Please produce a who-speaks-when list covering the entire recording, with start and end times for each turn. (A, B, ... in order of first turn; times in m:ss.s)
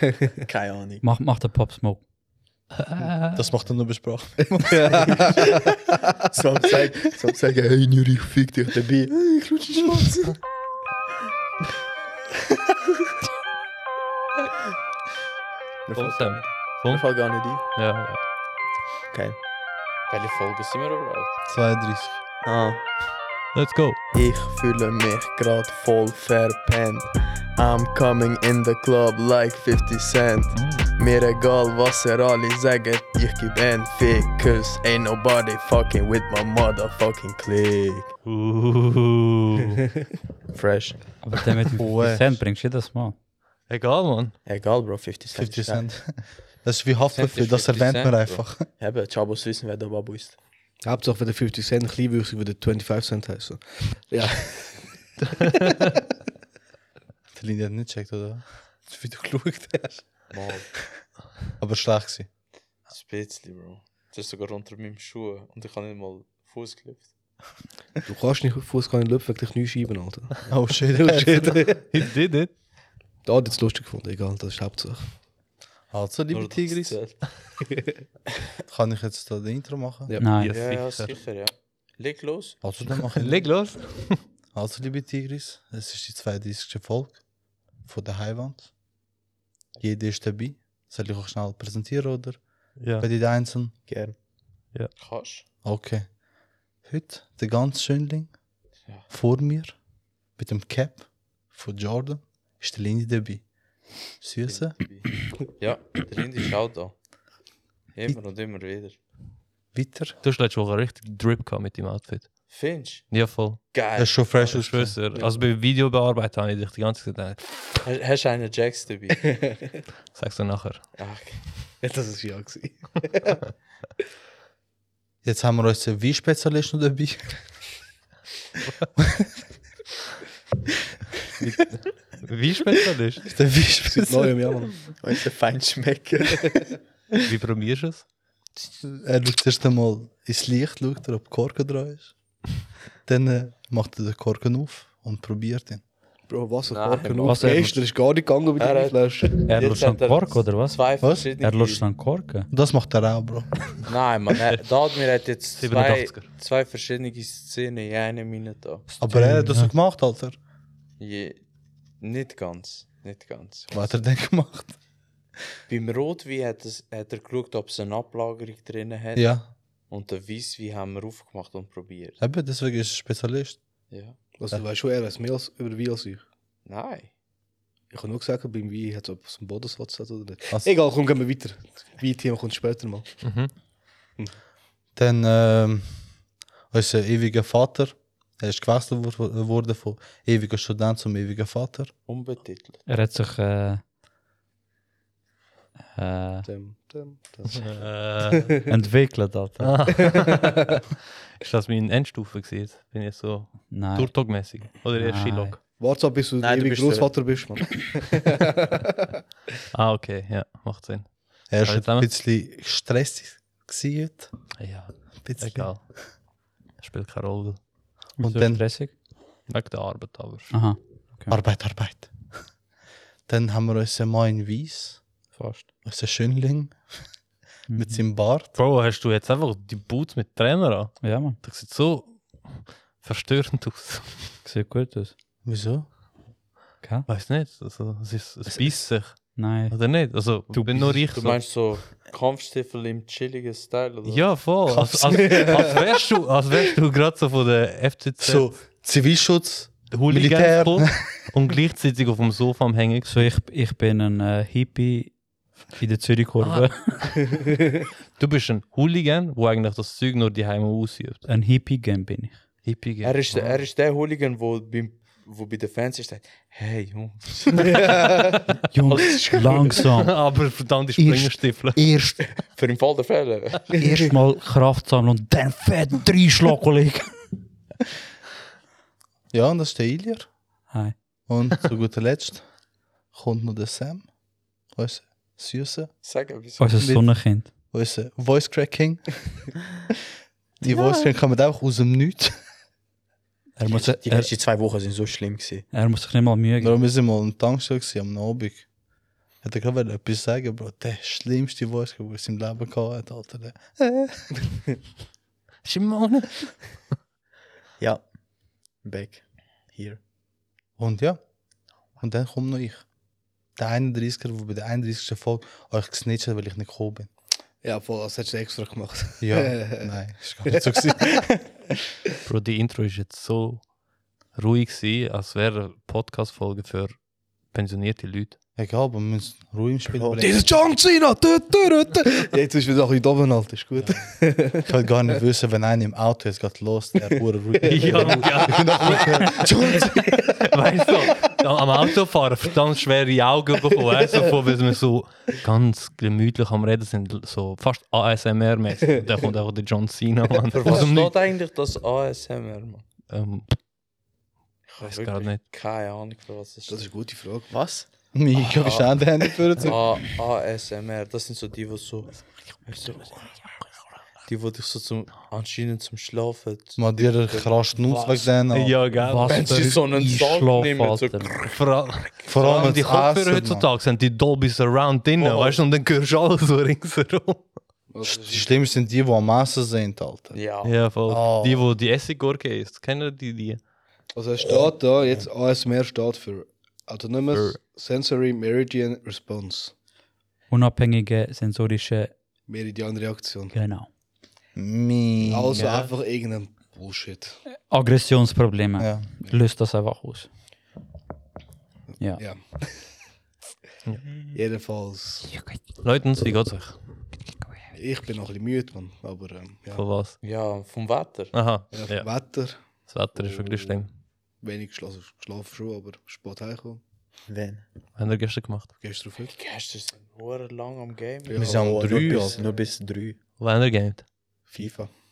0:00.5-0:01.0 A
0:01.0-0:02.0 B
0:02.8-0:03.4 C
0:03.4-0:05.1 D
0:04.6-0:05.4 E
0:06.3-0:10.4 A
0:15.9-0:17.6 A
0:15.9-0:18.2 C
0:19.1-0:19.4 A
0:20.1-0:21.4 F
0:21.5-0:22.2 D
0:22.4-0:22.8 A
0:23.5-0:24.0 C
0:24.1-0:38.1 A
0:30.5-0:30.9 C
0:38.2-0:39.8 C
0:40.5-0:41.1 A
0:41.2-0:43.2 B
0:41.8-0:42.4 D
0:43.7-0:44.4 C
0:44.4-0:45.8 A
0:45.4-0:48.7 D
0:47.1-0:48.5 F
0:48.8-0:50.4 A
0:50.8-0:54.9 E
0:57.3-1:00.1 D
1:00.3-1:00.7 F
1:01.6-1:02.3 D
1:02.9-1:07.1 F
1:08.1-1:11.8 E
1:10.5-1:11.7 D
1:11.9-1:12.5 C
1:13.2-1:15.0 E
1:15.9-1:17.2 D
1:16.3-1:17.3 F
1:18.7-1:20.1 D
1:20.1-1:20.4 E
1:20.2-1:20.5 B
1:20.4-1:21.1 C
1:20.5-1:22.6 F
1:22.6-1:23.6 D
1:22.9-1:24.2 C
1:24.5-1:27.2 D
1:27.8-1:28.7 D
1:29.8-1:33.7 D
1:32.8-1:33.1 C
1:33.9-1:34.2 A
1:35.0-1:35.4 F
1:35.6-1:36.2 D
1:36.8-1:38.4 D
1:39.1-1:39.8 D
1:40.4-1:43.4 D
1:44.2-1:44.8 D
1:44.4-1:47.0 F
1:47.9-1:49.0 F
1:49.7-1:50.2 D
1:50.2-1:52.5 C
1:52.5-1:53.1 F
1:53.1-1:53.6 C
1:53.7-1:54.6 F
1:54.0-1:55.0 D
1:54.3-1:57.7 C
1:57.8-1:59.3 F
1:59.3-1:59.6 E
2:00.1-2:00.9 C
2:01.0-2:01.4 F
2:01.8-2:03.5 E
2:05.2-2:07.4 D
2:09.0-2:09.3 D
2:11.4-2:13.3 C
2:13.3-2:14.3 D
2:13.9-2:14.9 E
2:14.8-2:16.8 A
2:17.2-2:18.0 C
2:18.8-2:22.1 D
2:23.1-2:25.8 D
2:26.3-2:29.4 E
2:26.7-2:27.6 F
2:27.3-2:27.8 B
2:28.6-2:31.8 F
2:29.4-2:32.5 B
2:31.0-2:31.3 D
2:32.5-2:33.5 D
2:33.9-2:38.8 F
2:35.6-2:36.3 C
2:39.0-2:40.4 D
2:39.1-2:39.7 C
2:41.0-2:41.4 F
2:42.0-2:43.9 F
2:43.7-2:44.8 D
2:45.7-2:49.4 F
2:49.2-2:49.4 D
2:49.9-2:52.2 F
2:52.2-2:53.6 D
2:53.9-2:54.2 F
2:54.4-2:56.3 E
2:56.7-2:57.1 F
2:57.9-3:03.1 E
3:03.2-3:03.5 C
3:05.0-3:06.0 D
3:06.7-3:11.9 D
3:12.1-3:12.8 F
3:12.9-3:13.8 B
3:16.0-3:16.5 B
3:16.5-3:18.7 E
3:17.5-3:18.5 C
3:18.7-3:20.0 B
3:19.6-3:20.9 C
3:21.4-3:25.6 C
3:23.7-3:24.1 B
3:24.9-3:25.6 B
3:25.8-3:28.9 E
3:26.4-3:27.3 A
3:29.7-3:32.1 C
3:31.5-3:34.3 D
3:34.6-3:35.8 C
3:35.2-3:35.7 D
3:36.8-3:37.6 C
3:38.2-3:38.9 B
3:38.2-3:38.6 D
3:39.5-3:40.5 C
3:40.5-3:41.4 B
3:41.3-3:42.3 D
3:43.3-3:45.0 D
3:45.4-3:45.7 B
3:45.8-3:46.8 D
3:47.7-3:48.0 B
3:47.7-3:48.6 D
3:48.6-3:54.4 C
3:51.0-3:51.4 B
3:54.4-3:55.1 B
3:55.4-3:55.9 D
3:56.8-3:57.1 B
3:57.1-4:01.4 C
3:59.2-3:59.8 B
4:00.5-4:01.0 B
4:01.1-4:04.4 F
4:04.1-4:08.6 C
4:04.7-4:05.6 D
4:08.2-4:11.2 D
4:09.9-4:13.3 C
4:13.1-4:15.2 B
4:15.7-4:17.2 B
4:16.4-4:17.3 C
4:18.2-4:21.3 C
4:21.3-4:22.4 B
4:22.6-4:23.6 C
4:23.0-4:28.2 F
4:27.6-4:28.5 C
4:28.7-4:30.2 B
4:28.9-4:29.6 F
4:29.8-4:31.8 C
4:31.0-4:32.2 B
4:32.4-4:33.8 F
4:33.8-4:37.2 B
4:39.3-4:40.3 D
4:41.3-4:42.4 D
4:43.1-4:44.1 D
4:44.7-4:45.9 D
4:46.0-4:46.9 F
4:46.6-4:47.5 B
4:46.8-4:49.2 D
4:50.6-4:52.4 D
4:53.6-4:54.3 B
4:53.7-4:55.7 A
4:55.7-4:56.8 B
4:56.6-4:58.7 D
4:59.4-5:04.3 D
5:05.6-5:06.6 C
5:07.8-5:08.0 A
5:08.8-5:10.0 A
5:10.8-5:11.2 D
5:12.0-5:12.8 D
5:13.6-5:17.1 D
5:17.6-5:19.9 E
5:19.2-5:21.3 D
5:20.5-5:21.5 E
5:22.3-5:23.7 C
5:24.4-5:27.0 C
5:27.5-5:28.4 C
5:28.6-5:30.5 D
5:30.0-5:30.2 A
5:30.2-5:34.7 E
5:34.6-5:39.7 D
5:37.2-5:40.1 E
5:37.6-5:51.1 C
5:50.5-5:52.8 F
5:53.1-5:53.6 C
5:54.7-5:56.9 F
5:54.8-5:55.4 C
5:56.7-5:57.5 E
5:57.5-5:57.9 A
5:58.1-5:59.8 D
5:58.4-6:03.4 F
6:04.2-6:08.1 F
6:06.8-6:08.8 D
6:08.4-6:09.4 C
6:09.0-6:11.3 B
6:09.2-6:11.6 F
6:11.4-6:17.5 C
6:12.3-6:13.6 D
6:15.2-6:15.6 F
6:17.9-6:18.5 E
6:18.1-6:20.4 D
6:20.3-6:20.8 F
6:20.6-6:23.6 C
6:21.1-6:21.7 D
6:24.2-6:29.7 E
6:30.5-6:32.1 B
6:32.5-6:33.5 E
6:33.5-6:33.9 B
6:34.6-6:35.8 D
6:35.2-6:37.4 E
6:35.6-6:35.8 C
6:37.7-6:40.3 B
6:38.8-6:39.1 D
6:42.2-6:42.6 E
6:44.3-6:45.3 E
6:45.8-6:46.8 C
6:47.7-6:49.8 E
6:49.7-6:50.2 C
6:50.2-6:51.4 F
6:51.3-6:52.1 C
6:51.7-6:52.6 E
6:52.9-6:53.9 C
6:54.4-6:56.8 E
6:57.3-6:57.6 A
6:58.0-6:58.7 C
6:58.8-6:59.3 E
6:59.2-7:01.6 F
7:01.3-7:02.1 E
7:01.4-7:02.4 D
7:01.5-7:03.2 A
7:02.1-7:02.5 F
7:03.4-7:04.1 C
7:04.5-7:04.9 E